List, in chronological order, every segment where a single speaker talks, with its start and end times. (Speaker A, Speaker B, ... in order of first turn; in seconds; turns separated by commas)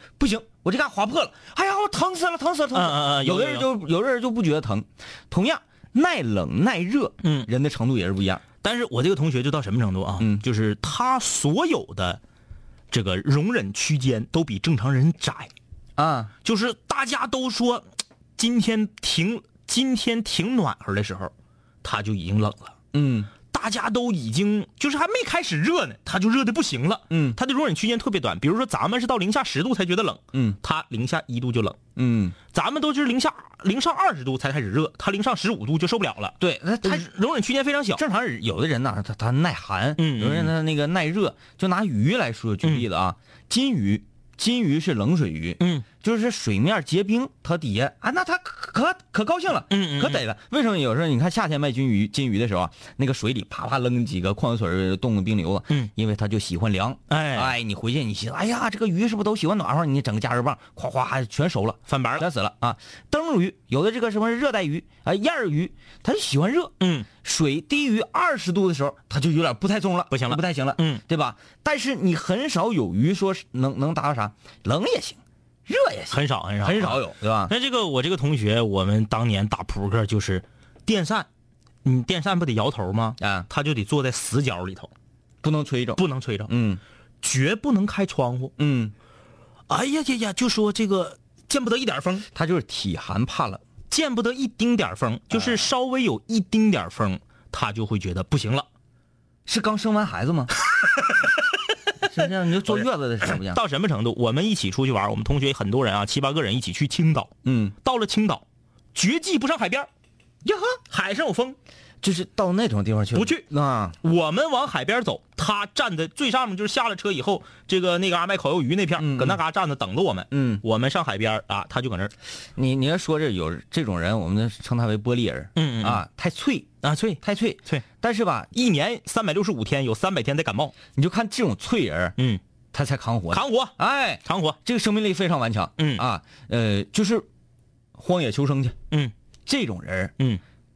Speaker A: 0.2-8.4, Speaker B: 2.7-3.7, Speaker B: 7.2-7.5, Speaker B: 8.6-12.2, Speaker B: 12.9-15.5, Speaker A: 16.0-16.3, Speaker B: 16.4-17.9, Speaker B: 18.4-22.7, Speaker A: 22.9-23.3, Speaker B: 23.5-31.8, Speaker A: 27.1-27.4, Speaker A: 30.3-30.6, Speaker A: 31.9-32.4, Speaker B: 32.5-38.0, Speaker A: 36.4-37.1, Speaker A: 38.0-77.5, Speaker B: 40.0-40.5, Speaker B: 45.6-45.8, Speaker B: 49.7-50.2, Speaker B: 57.1-57.5, Speaker B: 61.9-62.3, Speaker B: 66.8-67.1, Speaker B: 70.1-71.0, Speaker B: 76.1-81.3, Speaker B: 81.8-84.9, Speaker A: 83.2-83.5, Speaker A: 85.4-86.8, Speaker B: 86.0-86.5, Speaker B: 87.2-88.5, Speaker A: 88.6-88.9, Speaker B: 89.7-92.2, Speaker A: 92.3-93.6, Speaker B: 93.9-98.7, Speaker A: 95.3-95.7, Speaker A: 99.5-100.5, Speaker A: 102.1-103.6, Speaker B: 102.7-109.9, Speaker A: 107.4-107.7, Speaker A: 110.4-110.8, Speaker B: 110.9-111.5, Speaker A: 112.0-114.0, Speaker B: 113.1-113.5, Speaker B: 114.0-122.1, Speaker A: 119.0-119.4, Speaker A: 120.3-120.6, Speaker A: 122.5-128.5, Speaker B: 125.5-126.0, Speaker B: 126.8-127.8, Speaker B: 128.5-130.7, Speaker A: 130.9-132.2, Speaker A: 132.7-137.3, Speaker B: 133.3-134.6, Speaker B: 135.8-136.0, Speaker A: 137.9-138.8, Speaker A: 139.4-140.1